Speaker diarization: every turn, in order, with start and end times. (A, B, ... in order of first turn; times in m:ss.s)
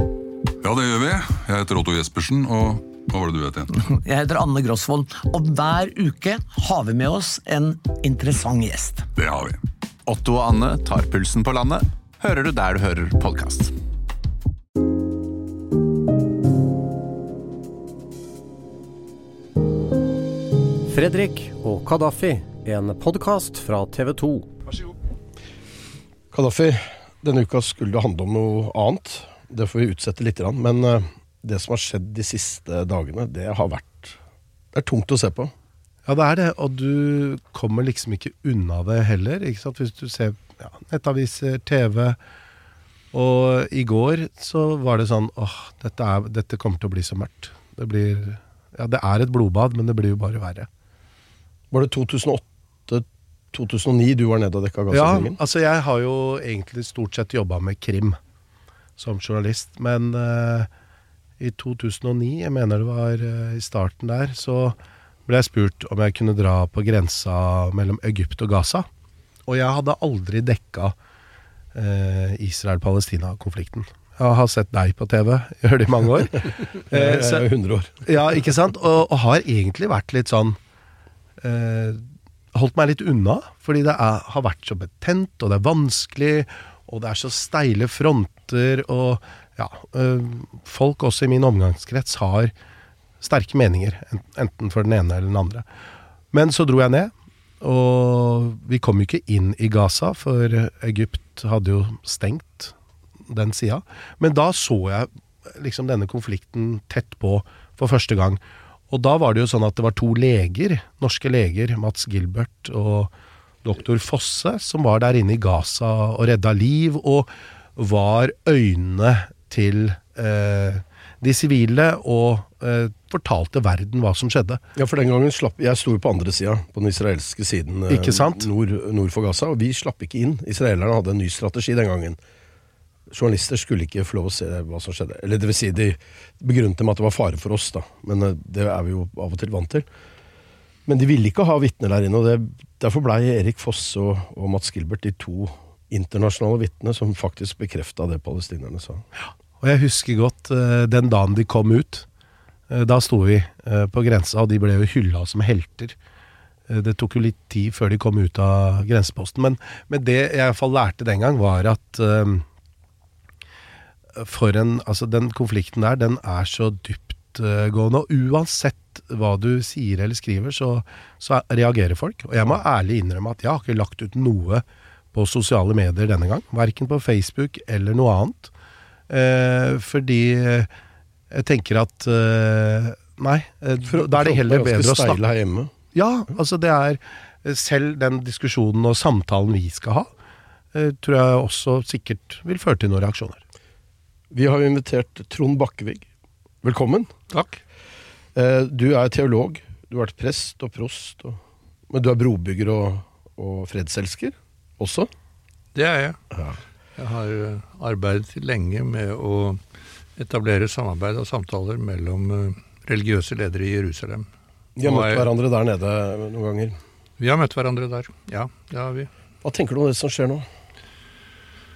0:00.6-0:03.8 A
0:03.8-0:09.1 B
0:09.2-0:09.6 A
0:10.1-0:13.7 C
0:20.9-0:24.5 D
0:26.3-0:34.2 E
0:34.7-0:35.5 E
0:36.0-0:42.2 F
0:43.1-0:50.7 F
0:51.7-0:55.4 E
0:54.9-0:58.2 F
0:59.0-1:00.7 F
1:01.4-1:08.9 F
1:09.5-1:11.0 F
1:11.7-1:17.5 F
1:16.9-1:18.3 E
1:18.0-1:20.6 F
1:21.4-1:32.5 F
1:33.2-1:35.7 F
1:36.3-1:42.7 F
1:43.3-1:53.1 F
1:53.6-2:04.6 F
2:04.8-2:12.2 E
2:07.9-2:08.5 F
2:13.1-2:19.9 E
2:20.9-2:29.1 E
2:29.6-2:32.1 F
2:32.7-2:36.0 F
2:36.7-2:42.5 F
2:44.2-2:58.5 F
2:59.1-3:00.7 F
3:01.3-3:05.2 F
3:03.9-3:05.7 E
3:05.9-3:10.1 F
3:10.7-3:13.4 F
3:14.3-3:16.1 E
3:16.6-3:17.1 E
3:17.3-3:17.6 G
3:18.4-3:21.4 E
3:21.9-3:25.1 E
3:25.8-3:26.2 G
3:27.0-3:29.6 G
3:30.2-3:34.3 G
3:34.8-3:36.8 E
3:34.8-3:35.3 G
3:37.2-3:39.1 G
3:39.4-3:40.5 E